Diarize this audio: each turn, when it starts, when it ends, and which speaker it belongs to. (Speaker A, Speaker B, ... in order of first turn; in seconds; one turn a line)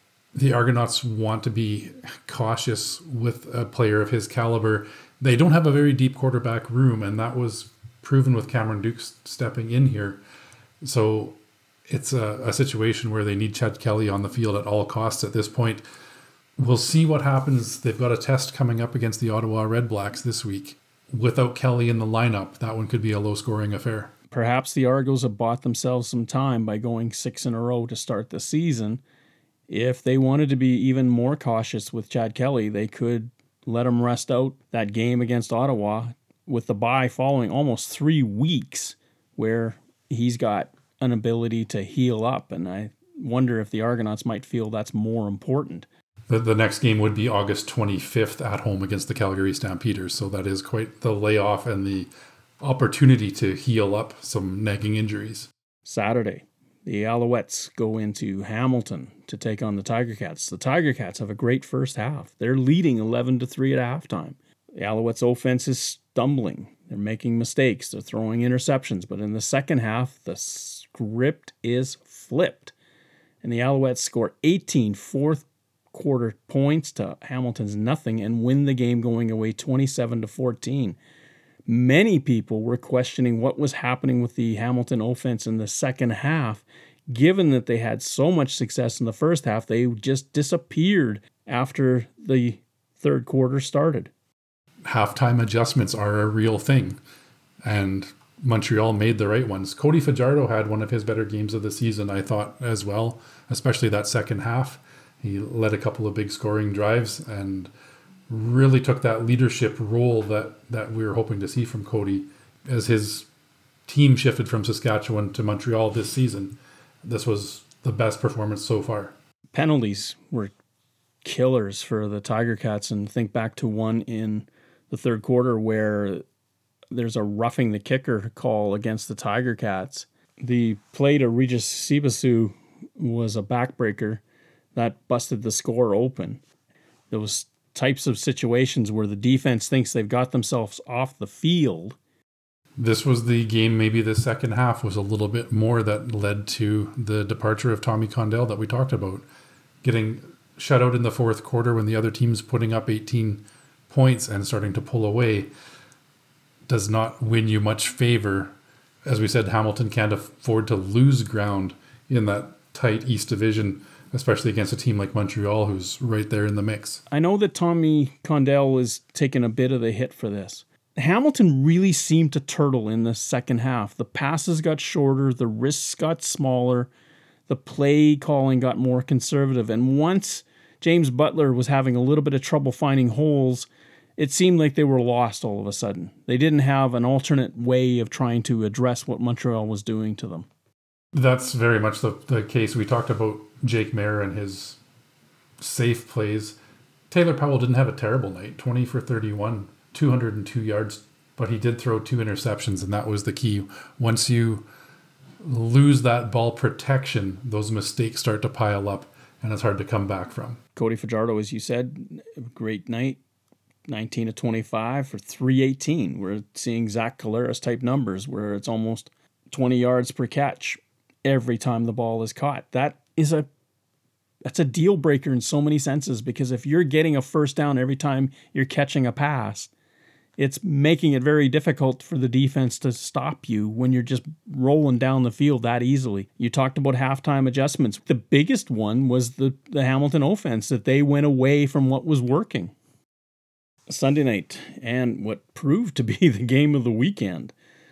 Speaker A: 0.3-10.2
Speaker A: 10.8-15.8
Speaker A: 16.6-24.1
Speaker B: 24.3-29.0
Speaker B: 29.7-45.9
Speaker A: 46.3-55.5
Speaker B: 55.8-72.7
Speaker B: 73.4-81.0
Speaker B: 81.7-94.1
Speaker A: 94.8-97.0
Speaker A: 97.6-107.7
Speaker A: 108.3-113.3
Speaker A: 113.9-119.1
Speaker B: 119.5-120.5
Speaker B: 121.2-126.2
Speaker B: 126.9-134.2
Speaker B: 134.7-136.4
Speaker B: 137.1-142.0
Speaker A: 142.8-149.2
Speaker A: 149.8-155.5
Speaker A: 156.7-158.5
Speaker A: 159.1-167.0
Speaker B: 167.1-176.9
Speaker B: 177.5-190.5
Speaker A: 191.1-194.8
Speaker A: 195.6-196.6
Speaker A: 197.1-204.7
Speaker A: 205.4-210.6
Speaker B: 210.8-213.2
Speaker B: 213.9-223.4
Speaker B: 224.4-229.7
Speaker B: 230.4-242.7
Speaker B: 243.9-247.5